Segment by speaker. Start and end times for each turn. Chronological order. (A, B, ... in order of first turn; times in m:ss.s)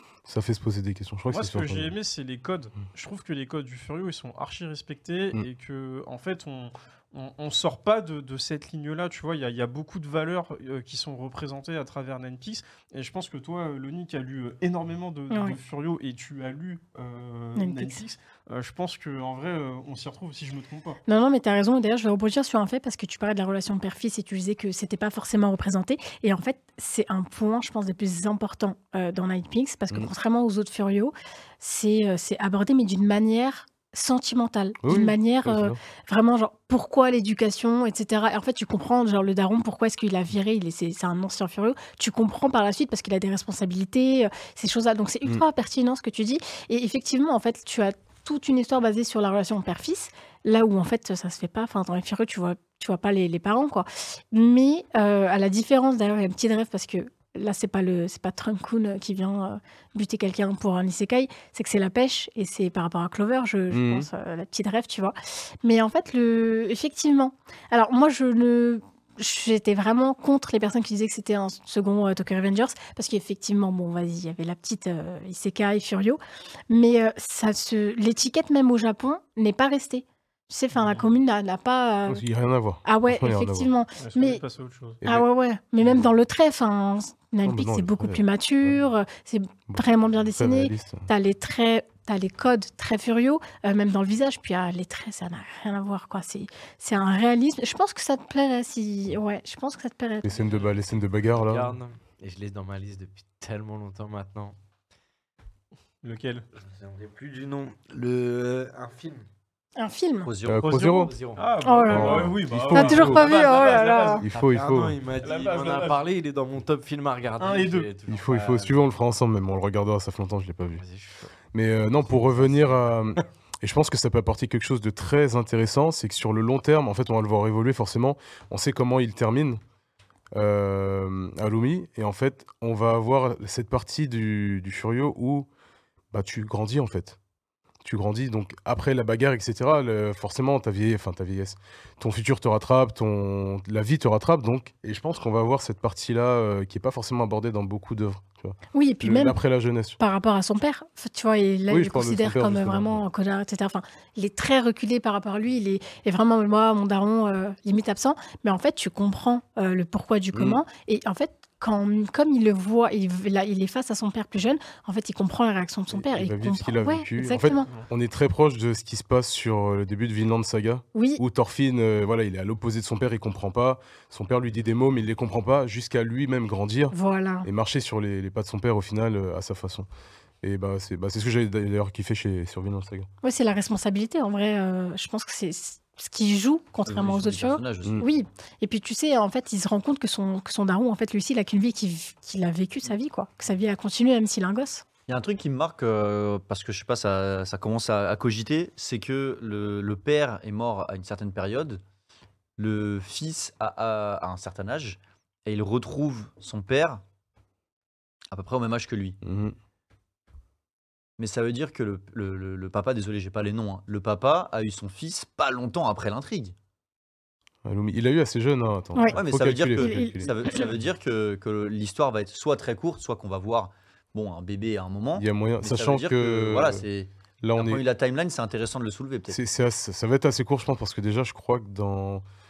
0:00.3-0:01.9 A
0:01.3-0:21.0 B
0:15.3-0:15.6 C
0:17.6-0:18.0 C
0:21.1-1:22.3 C
0:34.8-0:35.8 A
1:03.7-1:04.1 A
1:20.7-1:21.1 B
1:22.1-1:23.7 A
1:22.8-1:24.4 C
1:24.0-1:25.0 B
1:25.0-1:40.4 C
1:25.8-1:26.1 A
1:27.4-1:28.8 A
1:29.7-1:31.1 A
1:40.2-1:41.8 A
1:40.4-1:40.7 D
1:41.4-1:44.6 D
1:46.0-1:46.5 B
1:46.6-1:49.3 D
1:49.8-1:50.3 C
1:50.2-1:50.8 E
1:50.4-1:51.1 A
1:50.6-1:54.2 B
1:50.7-1:58.8 D
1:51.6-1:54.2 C
1:51.9-1:53.2 A
1:54.2-1:55.0 A
1:55.2-1:56.0 B
1:57.4-1:57.9 B
1:58.1-2:00.8 A
2:00.8-2:01.3 D
2:01.5-2:09.6 A
2:02.1-2:02.9 D
2:10.3-2:15.5 A
2:16.1-2:17.2 A
2:17.8-2:30.0 A
2:28.7-2:29.4 C
2:30.0-2:47.7 C
2:31.7-2:33.0 A
2:40.3-2:40.6 A
2:45.9-2:59.9 A
2:50.9-2:51.2 C
2:56.9-2:57.5 C
3:00.4-3:03.1 A
3:03.2-3:14.8 C
3:06.8-3:08.0 E
3:15.1-3:21.8 E
3:22.6-3:27.0 E
3:28.3-3:29.2 E
3:29.2-3:29.6 A
3:31.2-3:36.6 E
3:37.6-3:40.3 A
3:39.1-3:49.4 E
3:39.8-3:40.7 C
3:45.2-3:46.8 A
3:47.4-3:47.8 A
3:49.3-3:52.2 A